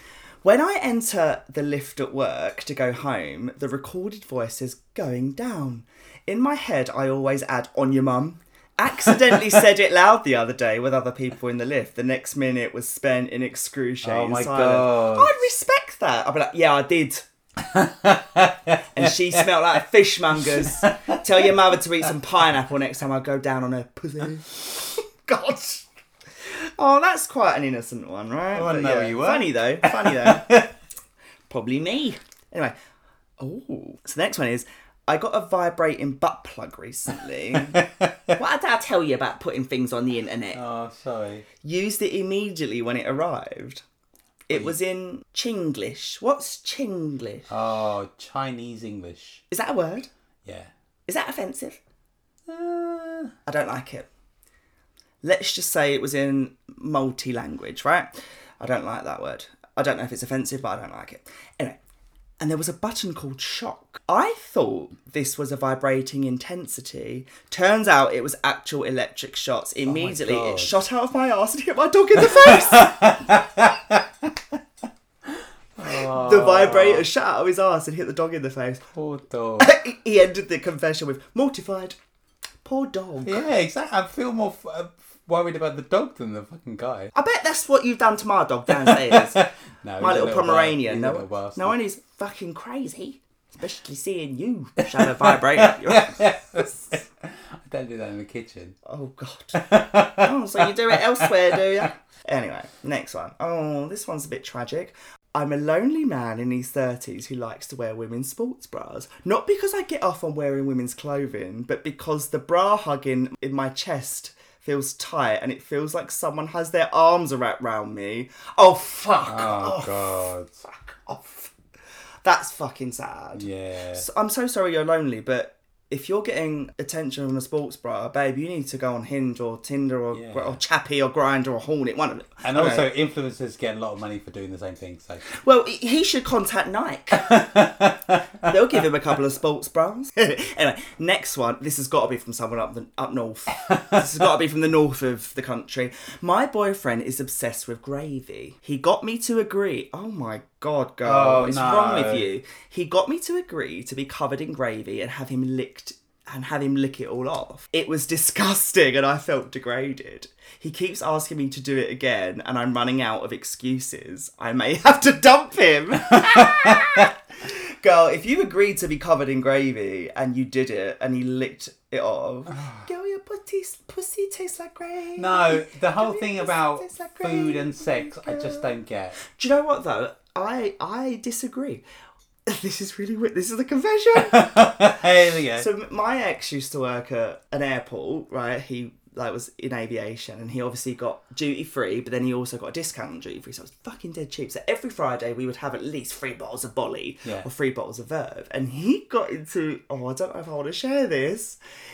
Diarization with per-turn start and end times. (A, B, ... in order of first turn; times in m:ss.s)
0:00.4-0:17.2 A
0:09.0-0:09.5 B
0:14.0-0:15.4 B
0:17.6-0:19.8 B
0:18.9-0:25.9 A
0:20.4-0:21.7 B
0:26.4-0:30.6 A
0:28.5-0:30.8 B
0:31.5-0:32.7 A
0:33.4-0:37.8 A
0:37.5-0:38.4 B
0:38.4-0:40.6 A
0:40.5-0:41.5 B
0:41.6-0:43.8 A
0:44.5-0:47.5 A
0:47.5-0:49.4 B
0:49.5-0:50.1 A
0:50.4-0:50.7 B
0:51.1-0:51.8 A
0:52.5-0:53.3 B
0:53.4-0:54.1 A
0:55.2-1:01.8 A
1:02.4-1:13.2 A
1:09.8-1:10.7 B
1:12.2-1:14.4 B
1:15.2-1:17.1 B
1:15.8-1:18.8 A
1:18.9-1:19.7 B
1:19.6-1:22.0 A
1:22.6-1:23.4 A
1:23.2-1:27.1 B
1:27.1-1:29.4 A
1:28.7-1:31.8 B
1:30.0-1:36.9 A
1:34.8-1:38.8 B
1:38.8-2:00.0 A
1:39.6-1:41.8 B
1:59.2-2:00.6 B
2:00.6-2:01.5 A
2:02.2-2:12.9 A
2:03.3-2:04.0 B
2:10.1-2:10.6 B
2:12.4-2:15.3 B
2:15.3-2:17.4 A
2:17.1-2:18.5 B
2:18.4-2:58.7 A
2:23.5-2:24.0 B
2:31.0-2:32.3 B
2:46.0-2:47.1 B
2:52.5-2:52.8 B
2:55.2-2:59.2 B
2:59.2-3:01.8 A
3:02.4-3:21.6 A
3:04.1-3:05.7 B